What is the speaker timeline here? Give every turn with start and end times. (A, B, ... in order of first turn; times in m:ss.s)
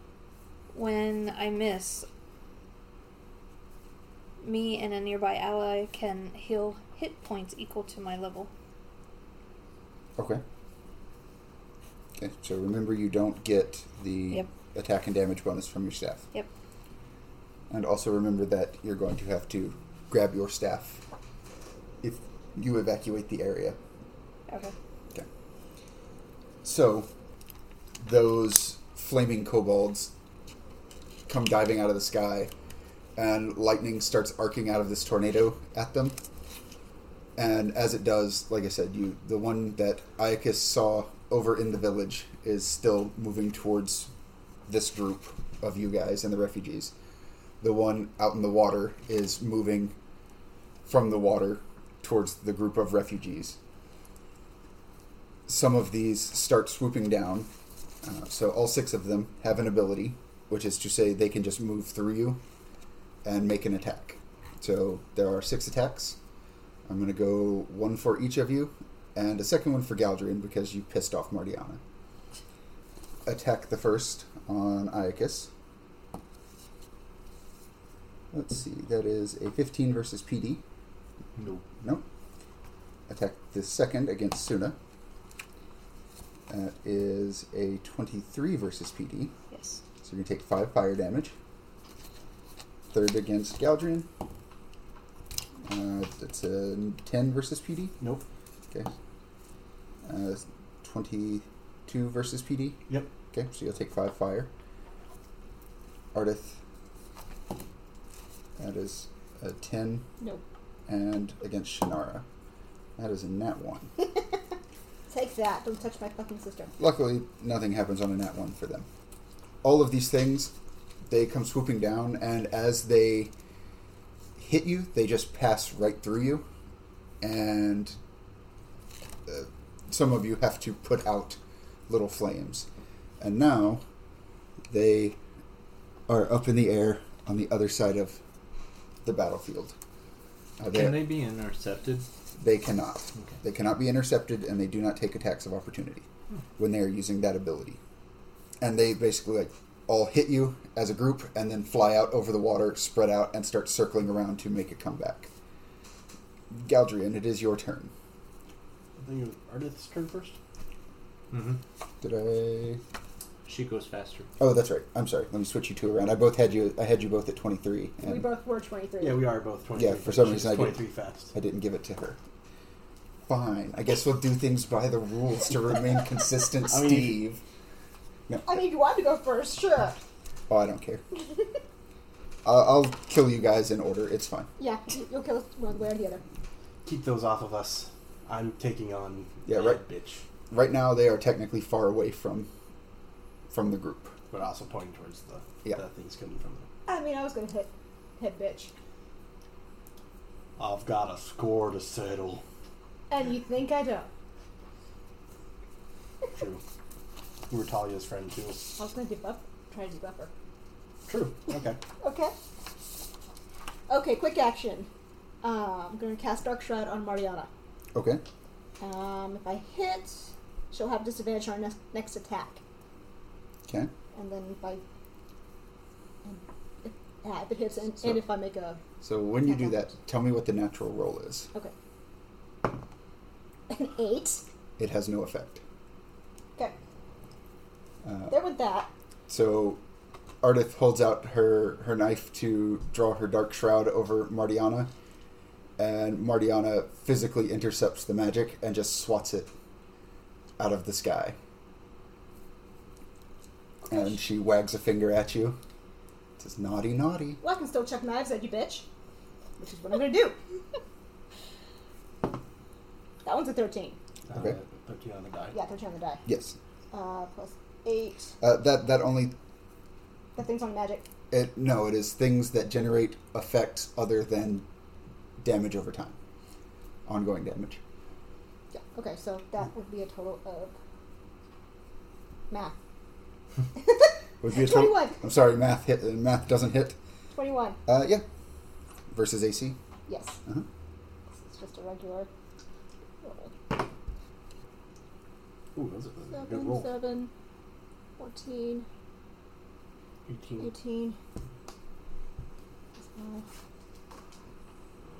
0:00.7-0:02.0 A
0:04.4-0:08.5 A
0:10.2-0:10.4 B
0:12.2-0:16.2 B
0:17.7-0:21.0 B
0:22.0-0:23.8 B
0:24.5-0:24.7 A
0:26.6-0:27.1 B
0:28.0-0:30.1 B
0:31.3-0:32.5 B
0:33.2-0:36.2 B
0:37.4-0:44.1 B
0:44.7-0:46.9 B
0:47.6-0:50.0 B
0:50.8-0:53.6 B
0:55.5-0:57.5 B
0:58.0-1:02.4 B
1:03.2-1:06.2 B
1:06.8-1:11.8 B
1:13.2-1:15.5 B
1:18.3-1:20.6 B
1:21.7-1:22.0 B
1:23.1-1:24.8 B
1:26.5-1:29.3 B
1:29.5-1:29.8 A
1:30.0-1:31.3 B
1:32.9-1:34.1 B
1:35.6-1:38.0 B
1:38.0-1:38.2 C
1:40.0-1:44.5 B
1:46.1-1:46.6 B
1:48.6-1:50.1 B
1:50.9-1:52.2 B
1:53.0-1:53.9 B
1:55.1-1:56.7 D
1:56.8-1:58.9 B
1:59.6-2:00.5 B
2:01.1-2:03.3 B
2:04.4-2:06.5 B
2:07.2-2:08.0 B
2:09.3-2:12.7 B
2:13.2-2:13.8 B
2:14.7-2:15.2 B
2:16.1-2:18.2 B
2:19.0-2:19.8 B
2:20.6-2:21.1 B
2:20.7-2:22.1 E
2:22.4-2:26.0 B
2:26.6-2:27.8 B
2:28.6-2:35.3 B
2:36.5-2:37.9 B
2:39.0-2:40.4 C
2:42.0-2:42.8 B
2:43.4-2:44.3 E
2:44.4-2:48.2 B
2:48.0-2:49.2 D
2:49.0-2:51.3 C
2:49.7-2:52.2 B
2:53.3-2:57.4 B
2:56.7-2:57.2 C
2:58.3-2:58.6 B
2:58.4-3:00.0 D
3:00.5-3:01.0 B
3:01.2-3:01.4 D
3:02.4-3:04.5 B
3:04.6-3:06.2 D
3:06.8-3:10.2 C
3:09.4-3:09.8 B
3:10.5-3:12.5 B
3:13.5-3:14.2 B
3:14.3-3:16.7 C
3:16.8-3:18.7 D
3:20.6-3:22.4 C
3:23.1-3:24.1 D
3:26.3-3:26.6 C
3:27.5-3:28.6 C
3:28.8-3:30.3 D
3:31.1-3:31.8 C
3:32.0-3:32.3 D
3:33.9-3:34.9 D
3:35.4-3:37.5 D
3:37.9-3:38.2 B
3:38.8-3:42.6 D
3:44.1-3:44.8 D
3:46.2-3:48.8 D
3:49.0-3:51.5 B
3:49.4-3:49.8 D
3:53.7-3:54.4 D
3:54.8-3:55.6 B
3:58.0-3:58.4 B
3:58.3-3:58.9 D
3:59.3-3:59.8 B
4:00.4-4:04.9 B
4:05.8-4:09.5 B
4:10.6-4:11.4 B
4:13.8-4:14.2 D
4:13.9-4:15.6 B
4:16.4-4:17.4 B
4:17.4-4:18.9 D
4:19.6-4:20.4 D
4:23.2-4:24.0 D
4:24.3-4:25.6 C
4:25.5-4:26.2 D
4:26.2-4:26.6 B
4:26.9-4:28.3 D
4:28.4-4:29.3 B
4:30.4-4:31.1 D
4:31.3-4:34.6 B
4:35.4-4:36.2 B
4:37.0-4:37.8 B
4:38.7-4:40.8 D
4:42.5-4:42.7 D
4:43.7-4:45.2 D
4:44.4-4:47.0 B
4:47.3-4:47.8 D
4:47.8-4:48.2 B
4:49.1-4:49.8 B
4:50.1-4:50.4 D
4:51.3-4:52.3 D
4:53.2-4:53.6 D
4:55.7-4:56.9 C
4:56.3-4:57.3 D
4:58.2-4:58.8 D
5:00.3-5:00.7 C
5:00.6-5:01.2 D
5:03.0-5:03.5 D